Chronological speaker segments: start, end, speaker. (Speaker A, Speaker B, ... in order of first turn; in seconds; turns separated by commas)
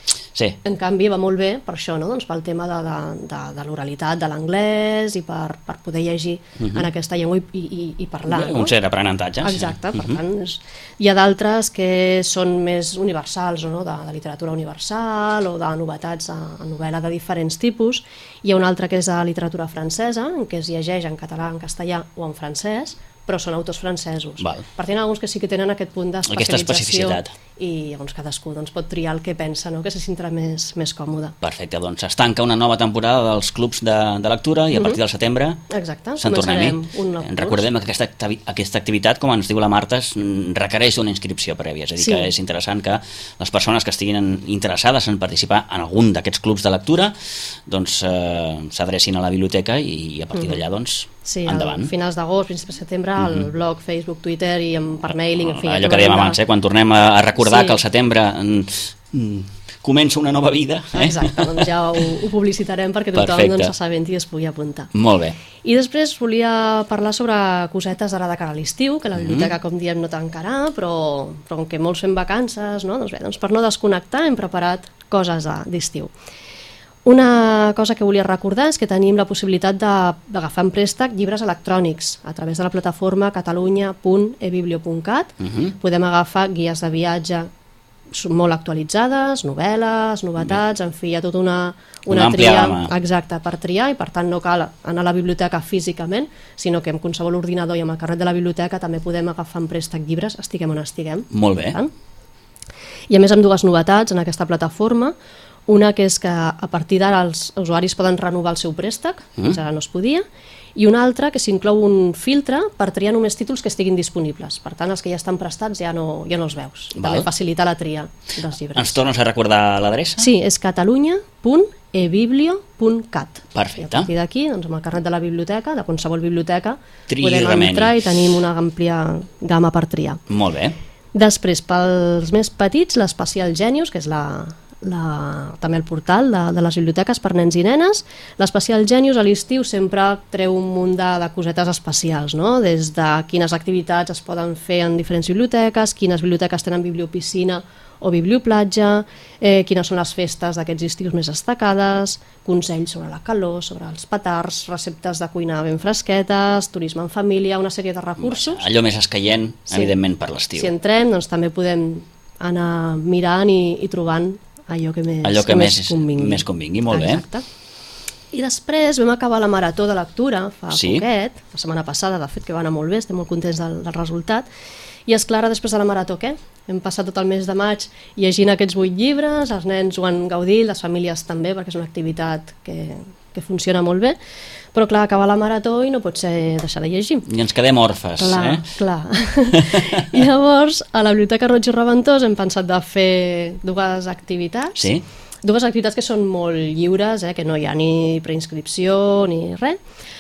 Speaker A: 0.6-8.8, Speaker B: 6.6-6.9, Speaker B: 8.3-10.2, Speaker A: 9.4-31.4, Speaker B: 24.4-24.6, Speaker B: 26.3-27.3, Speaker B: 31.4-35.6, Speaker A: 34.7-35.0, Speaker A: 35.7-37.7, Speaker B: 36.2-47.1, Speaker A: 42.0-42.3, Speaker B: 47.7-51.9, Speaker A: 51.2-56.4, Speaker B: 53.2-53.5, Speaker B: 55.4-61.7, Speaker A: 57.4-57.8, Speaker A: 61.0-64.9, Speaker B: 63.1-63.7, Speaker B: 64.9-65.4, Speaker A: 65.6-76.1, Speaker B: 69.1-69.5, Speaker A: 77.0-87.5, Speaker B: 85.4-85.7, Speaker A: 88.1-101.9, Speaker B: 92.1-92.9, Speaker B: 101.3-101.8, Speaker A: 103.1-105.2, Speaker A: 105.7-110.2, Speaker A: 110.8-119.0, Speaker B: 117.0-117.3, Speaker B: 118.8-120.3, Speaker A: 120.2-130.2, Speaker B: 123.5-124.1, Speaker B: 127.1-128.0, Speaker B: 130.3-130.8, Speaker A: 131.1-158.7, Speaker B: 158.2-160.7, Speaker A: 160.6-167.5, Speaker B: 165.2-167.2, Speaker A: 168.3-174.5, Speaker B: 170.7-171.0, Speaker A: 175.1-184.2, Speaker A: 184.7-187.3, Speaker B: 187.3-188.7, Speaker A: 188.2-199.8, Speaker B: 189.5-190.0, Speaker B: 194.8-195.0